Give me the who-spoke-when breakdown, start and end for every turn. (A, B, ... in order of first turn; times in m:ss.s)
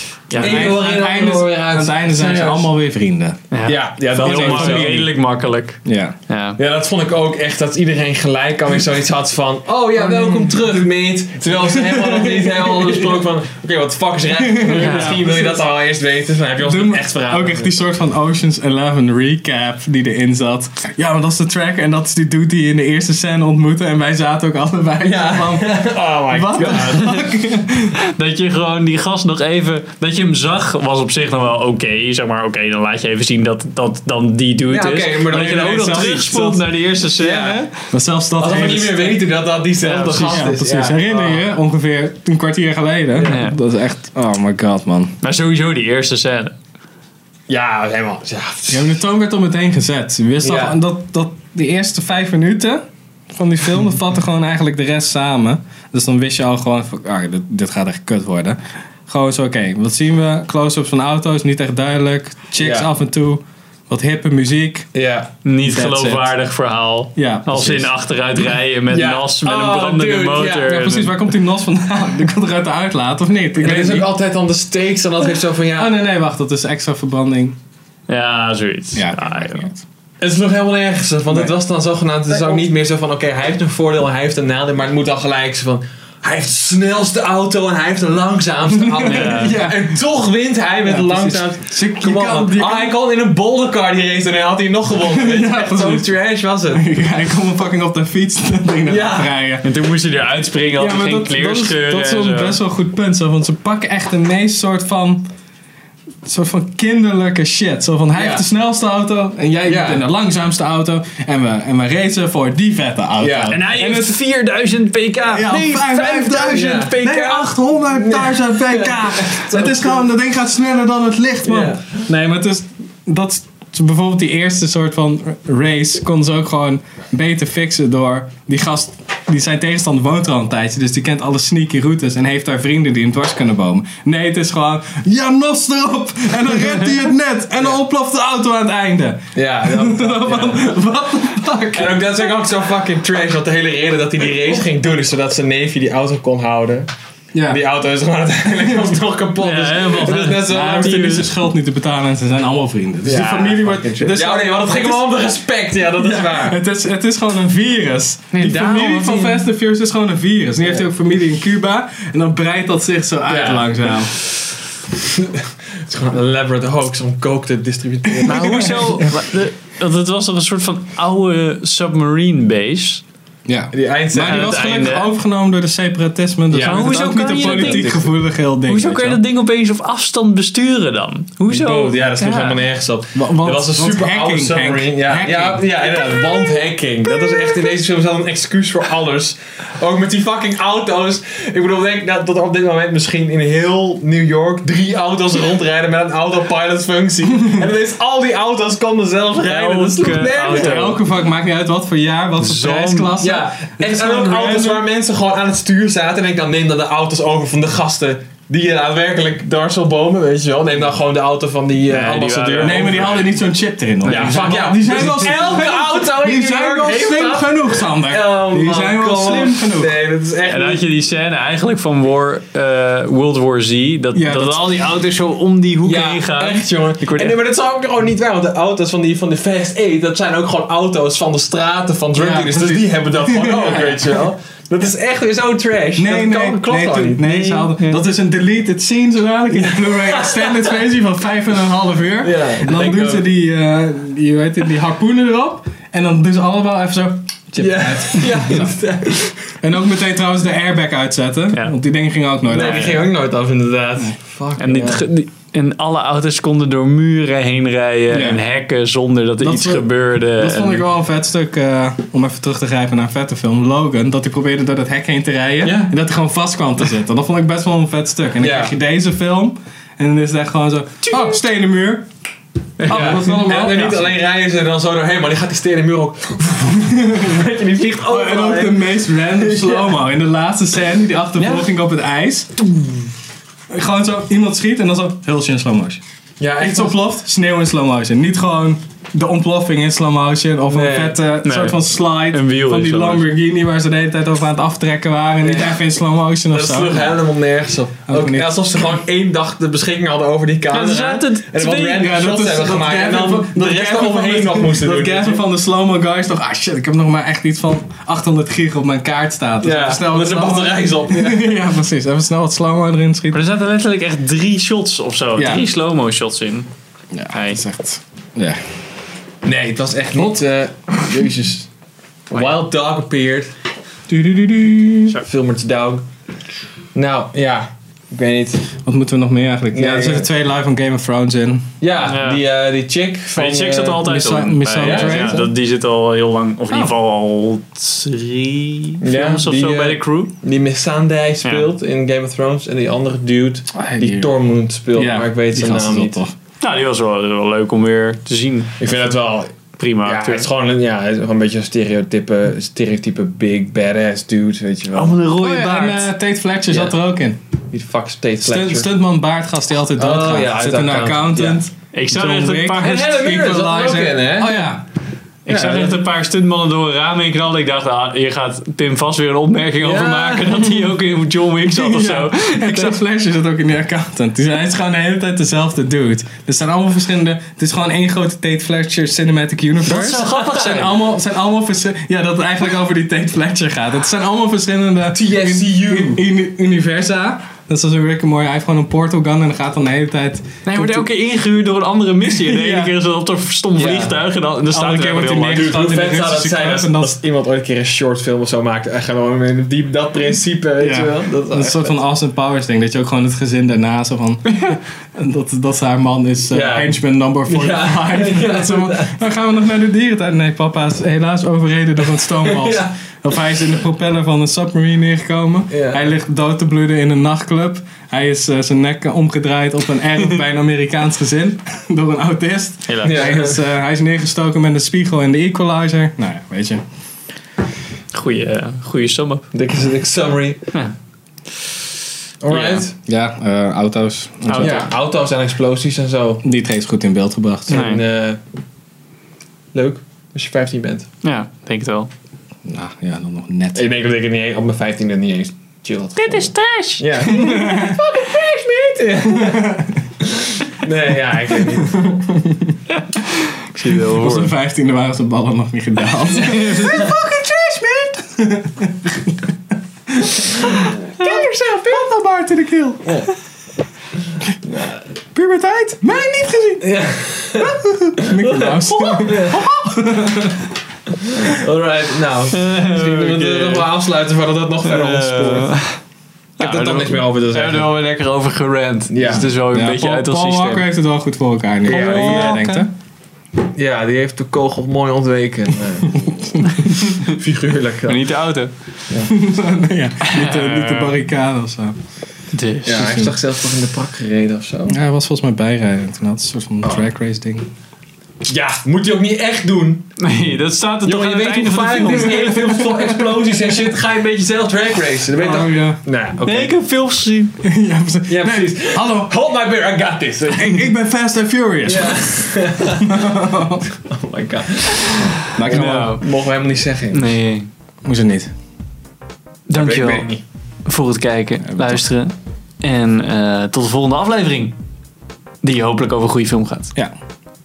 0:00.3-0:00.8 A
0:00.3-0:02.7 B
0:00.3-0:03.4 C
0:03.5-0:06.6 A
0:03.7-0:05.0 B
0:04.1-0:05.1 C
0:05.8-0:06.2 C
0:06.6-0:17.7 B
0:11.7-0:13.2 C
0:14.4-0:15.6 C
0:14.8-0:15.2 A
0:16.6-0:27.9 C
0:25.0-0:27.1 B
0:26.6-0:27.3 A
0:28.0-0:37.6 A
0:34.7-0:36.2 B
0:35.3-0:39.1 C
0:37.2-0:37.7 B
0:38.4-0:41.5 B
0:39.8-0:40.4 A
0:40.2-0:45.2 C
0:43.2-0:43.6 A
0:45.2-0:46.5 A
0:47.5-0:49.0 B
0:48.7-1:04.9 C
0:50.4-0:50.8 B
1:02.6-1:02.9 B
1:04.9-1:05.3 B
1:05.4-1:11.2 A
1:05.6-1:06.4 C
1:07.2-1:07.9 C
1:08.9-1:10.7 B
1:10.6-1:14.1 C
1:13.6-1:16.0 B
1:15.8-1:17.6 C
1:18.1-1:19.7 A
1:18.9-1:19.8 C
1:20.2-1:36.8 B
1:28.7-1:29.9 C
1:29.0-1:29.6 A
1:30.8-1:33.0 C
1:35.0-1:36.1 C
1:36.7-1:39.7 C
1:38.9-1:39.3 B
1:39.6-1:42.6 A
1:40.8-1:45.2 C
1:46.2-1:54.2 C
1:48.1-1:48.4 B
1:49.7-1:50.0 B
1:53.2-1:53.6 B
1:53.5-1:57.6 A
1:55.2-2:22.1 C
1:56.5-1:57.0 B
1:57.9-2:00.1 B
2:01.4-2:02.0 B
2:19.4-2:20.8 B
2:21.8-2:26.9 B
2:27.3-2:27.6 C
2:27.5-2:31.2 B
2:29.4-2:31.3 A
2:30.2-2:35.1 C
2:33.0-2:36.6 B
2:36.0-2:44.1 C
2:38.3-2:39.5 A
2:43.3-2:44.4 B
2:45.0-2:49.1 B
2:48.2-2:48.9 C
2:48.3-2:53.0 A
2:53.5-2:59.2 C
2:53.7-2:54.9 B
2:54.2-2:55.1 A
2:56.5-2:58.1 B
2:56.6-2:58.0 A
2:58.6-3:02.6 A
3:01.5-3:21.0 B
3:03.1-3:05.7 C
3:19.4-3:21.0 A
3:20.4-3:24.8 C
3:22.4-3:23.2 A
3:23.2-3:33.2 B
3:31.9-3:33.2 A
3:32.6-3:40.0 C
3:34.0-3:34.6 A
3:34.1-3:40.9 B
3:40.4-3:47.4 A
3:44.1-3:44.8 C
3:45.8-3:57.8 B
3:52.2-3:54.2 C
3:56.0-4:08.7 C
3:59.5-4:00.8 B
4:02.2-4:03.3 B
4:07.6-4:09.5 B
4:09.6-4:13.1 C
4:12.5-4:15.0 B
4:14.6-4:20.8 A
4:18.1-4:18.4 C
4:19.4-4:32.1 C
4:25.6-4:25.9 B
4:28.4-4:28.7 B
4:31.1-4:31.3 A
4:32.8-4:33.5 A
4:32.9-4:34.1 C
4:32.9-4:40.0 B
4:38.0-4:42.5 C
4:41.4-4:41.7 B
4:43.7-4:46.0 C
4:46.4-4:47.0 B
4:46.6-4:57.2 C
4:50.6-4:51.2 B
4:51.4-4:53.3 A
4:55.4-4:55.8 B
4:56.5-5:05.4 B
4:58.1-4:58.5 C
5:00.7-5:02.1 A
5:02.0-5:13.4 C
5:09.6-5:11.5 B
5:13.3-5:16.7 A
5:15.4-5:15.7 C
5:17.1-5:18.6 C
5:17.3-5:17.6 A
5:19.4-5:21.7 B
5:22.3-5:23.5 B
5:22.3-5:22.6 A
5:24.1-5:25.2 C
5:25.2-5:26.0 B
5:27.0-5:28.7 B
5:28.8-5:31.7 C
5:29.7-5:30.3 B
5:31.8-5:34.1 B
5:32.0-5:32.4 A
5:33.4-5:40.3 A
5:34.0-5:35.5 C
5:34.8-5:35.5 B
5:39.0-5:46.2 B
5:43.7-5:44.3 C
5:44.9-5:46.3 C
5:46.6-5:48.7 A
5:48.8-5:49.5 B
5:49.8-5:50.5 A
5:50.0-5:55.2 B
5:54.9-5:56.1 A
5:55.4-5:57.4 C
5:56.7-5:57.0 B
5:57.7-5:58.9 B
5:58.4-6:04.8 C
6:00.0-6:01.6 B
6:01.9-6:03.2 A
6:02.8-6:04.7 B
6:05.5-6:13.0 A
6:05.5-6:06.0 B
6:09.8-6:10.7 B
6:11.7-6:31.1 C
6:19.8-6:21.0 A
6:20.0-6:20.4 B
6:25.1-6:26.2 B
6:30.6-6:35.7 A
6:32.3-6:33.0 C
6:33.8-6:34.2 B
6:34.7-6:37.2 C
6:35.5-6:42.0 B
6:40.8-7:06.8 C
6:46.5-6:49.2 B
6:52.0-6:52.9 B
6:55.7-6:56.0 B
7:02.9-7:03.3 A
7:03.0-7:03.6 B
7:08.1-7:09.5 A
7:09.5-7:10.6 B
7:12.4-7:12.9 B
7:12.5-7:12.8 A
7:13.1-7:14.9 C
7:14.4-7:14.9 A
7:14.6-7:16.4 B
7:16.4-7:17.9 C
7:17.7-7:18.4 B
7:17.7-7:18.0 A
7:19.7-7:21.1 B
7:21.2-7:22.1 A
7:22.7-7:23.9 C
7:23.8-7:32.2 B
7:26.2-7:27.8 A
7:27.3-7:28.0 C
7:29.3-7:29.9 C
7:32.9-7:34.5 A
7:34.1-7:39.4 C
7:36.4-7:37.0 A
7:40.1-7:43.2 C
7:41.2-7:42.0 A
7:44.7-7:45.0 B
7:45.4-7:46.9 C
7:46.8-7:49.7 B
7:47.6-7:50.7 C
7:51.3-7:55.7 B
7:52.5-7:53.9 A
7:54.8-7:56.0 A
7:56.6-8:00.9 A
7:56.6-7:57.9 B
7:59.1-7:59.5 B
7:59.7-8:02.9 C
8:01.8-8:02.6 B
8:01.8-8:02.9 A
8:03.7-8:06.5 B
8:06.2-8:06.6 C
8:06.6-8:07.3 A
8:07.2-8:08.4 B
8:08.1-8:08.7 A
8:09.3-8:12.0 C
8:10.2-8:11.2 A
8:12.5-8:13.1 A
8:12.8-8:15.0 B
8:12.9-8:13.3 C
8:14.9-8:17.7 C
8:18.5-8:20.1 B
8:20.2-8:23.1 A
8:21.0-8:26.8 B
8:22.0-8:23.0 C
8:25.4-8:26.0 C
8:26.4-8:27.5 A
8:27.6-8:29.3 C
8:28.3-8:30.8 B
8:30.6-8:32.3 C
8:31.9-8:33.4 B
8:33.0-8:33.8 C
8:34.1-8:37.4 B
8:35.5-8:36.2 C
8:35.7-8:36.2 A
8:37.1-8:37.7 A
8:38.0-8:38.5 C
8:39.7-8:40.3 A
8:39.7-8:40.4 B
8:40.9-8:44.8 A
8:41.6-8:42.0 C
8:45.6-8:46.9 A